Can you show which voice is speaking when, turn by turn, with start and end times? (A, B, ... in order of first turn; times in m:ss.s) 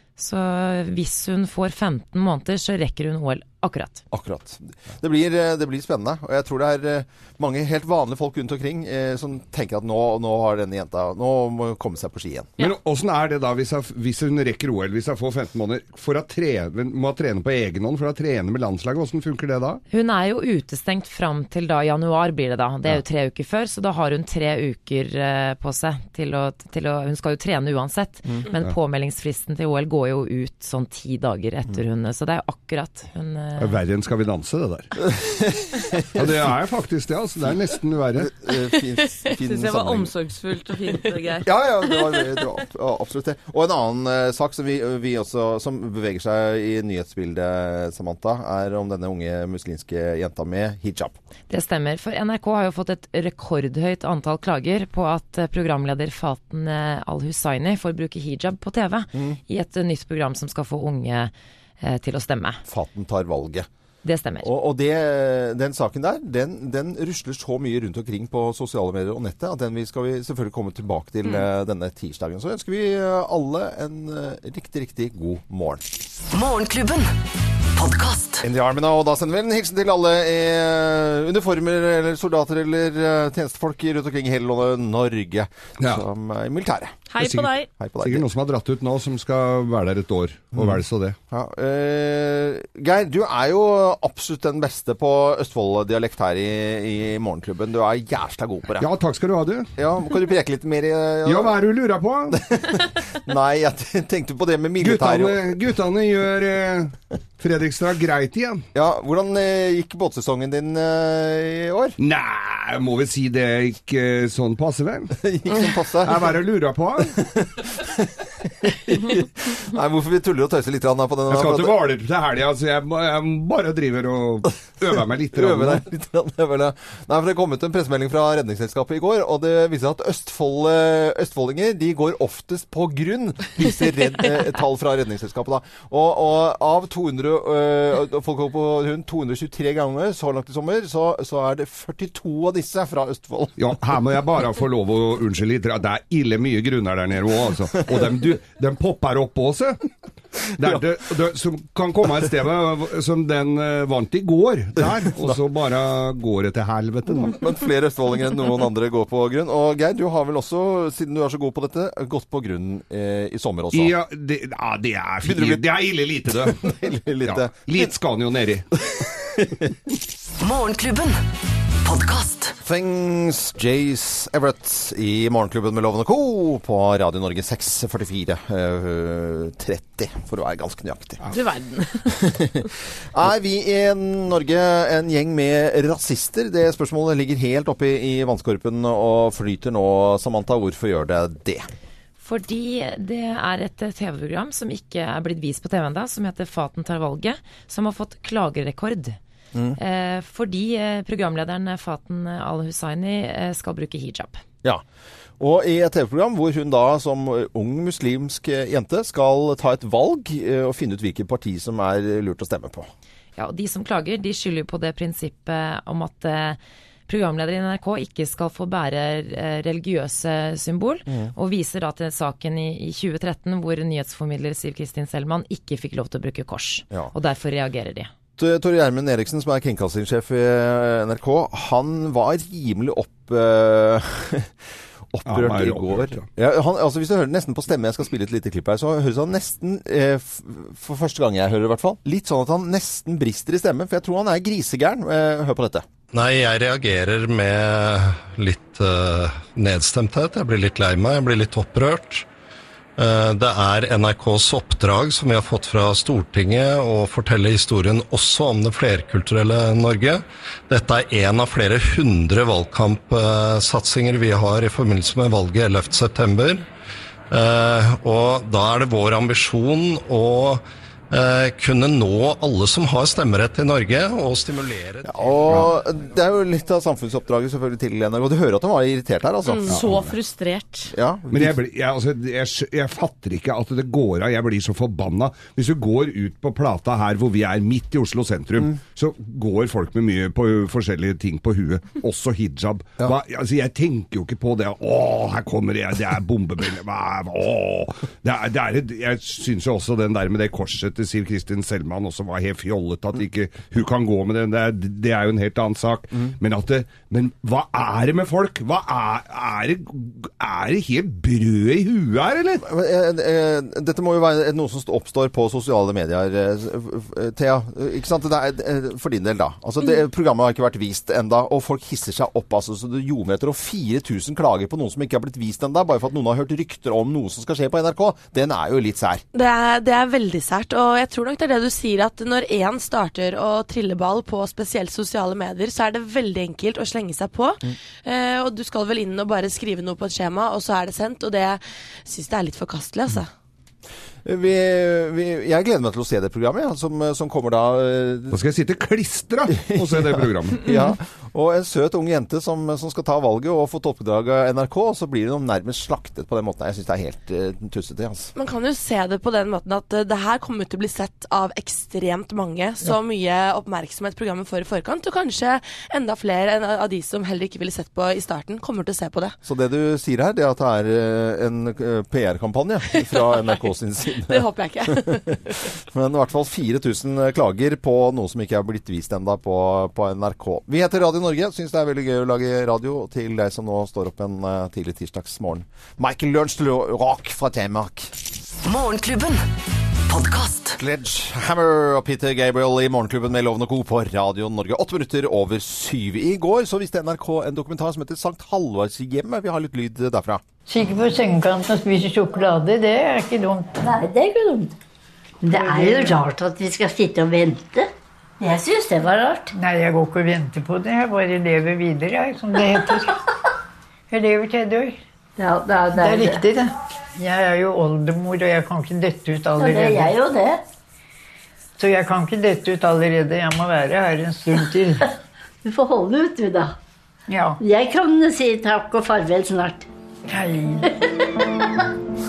0:00.2-0:04.0 A
0:04.1-0:12.5 B
0:12.6-0:19.8 C
0:19.9-0:33.8 A
0:33.6-0:35.1 C
0:35.6-0:36.3 B
0:36.1-0:38.3 C
0:38.2-0:40.1 B
0:39.2-0:41.5 D
0:41.4-0:51.2 B
0:51.5-1:02.6 A
0:59.1-0:59.4 B
1:02.7-1:03.7 B
1:04.0-1:04.5 A
1:04.4-1:15.8 B
1:16.3-1:17.1 E
1:17.8-1:18.4 E
1:18.4-1:27.0 B
1:27.1-1:27.7 D
1:27.2-1:31.2 C
1:27.8-1:28.2 B
1:30.5-1:30.8 B
1:31.3-1:38.9 B
1:38.8-1:39.7 C
1:39.8-1:41.6 B
1:41.2-1:42.4 C
1:42.3-1:45.5 B
1:44.8-1:48.6 C
1:48.7-1:52.0 B
1:52.0-1:55.2 C
1:55.2-1:56.3 B
1:56.0-1:57.3 C
1:57.4-2:01.8 B
2:01.3-2:05.8 C
2:05.3-2:23.6 B
2:23.6-2:29.8 C
2:30.6-2:37.4 C
2:37.3-2:44.0 B
2:43.7-2:48.7 C
2:45.2-2:45.7 B
2:46.4-2:47.9 B
2:48.9-2:49.7 B
2:50.4-2:51.2 E
2:51.8-2:52.5 E
2:52.6-3:01.2 B
3:01.3-3:02.2 D
3:02.1-3:11.7 B
3:12.2-3:19.2 A
3:19.5-3:19.8 B
3:19.8-3:24.4 A
3:25.4-3:32.9 B
3:33.4-3:48.1 A
3:48.4-3:54.5 B
3:55.1-4:05.9 B
3:55.3-3:56.3 C
4:06.1-4:12.3 F
4:13.0-4:26.7 F
4:27.3-4:35.3 F
4:35.0-4:39.8 B
4:39.7-4:40.9 D
4:39.7-4:40.1 C
4:40.9-4:41.6 B
4:41.3-5:12.6 C
5:12.6-5:29.2 B
5:29.3-5:43.3 G
5:44.2-5:48.4 B
5:48.3-5:50.7 C
5:49.6-5:58.3 B
5:58.4-6:09.4 G
6:09.4-6:14.4 B
6:14.2-6:15.4 G
6:15.8-6:28.1 B
6:28.6-6:29.4 E
6:30.1-6:30.8 E
6:30.8-6:40.4 B
6:40.7-6:43.8 H
6:43.8-6:44.7 I
6:45.4-6:49.5 I
6:45.5-6:46.2 H
6:49.6-6:53.2 H
6:54.1-6:55.0 H
6:55.4-6:56.4 I
6:55.9-7:00.2 H
6:59.6-7:00.6 I
7:01.8-7:05.1 H
7:05.6-7:06.8 I
7:07.3-7:07.6 H
7:07.6-7:09.9 I
7:10.3-7:10.9 H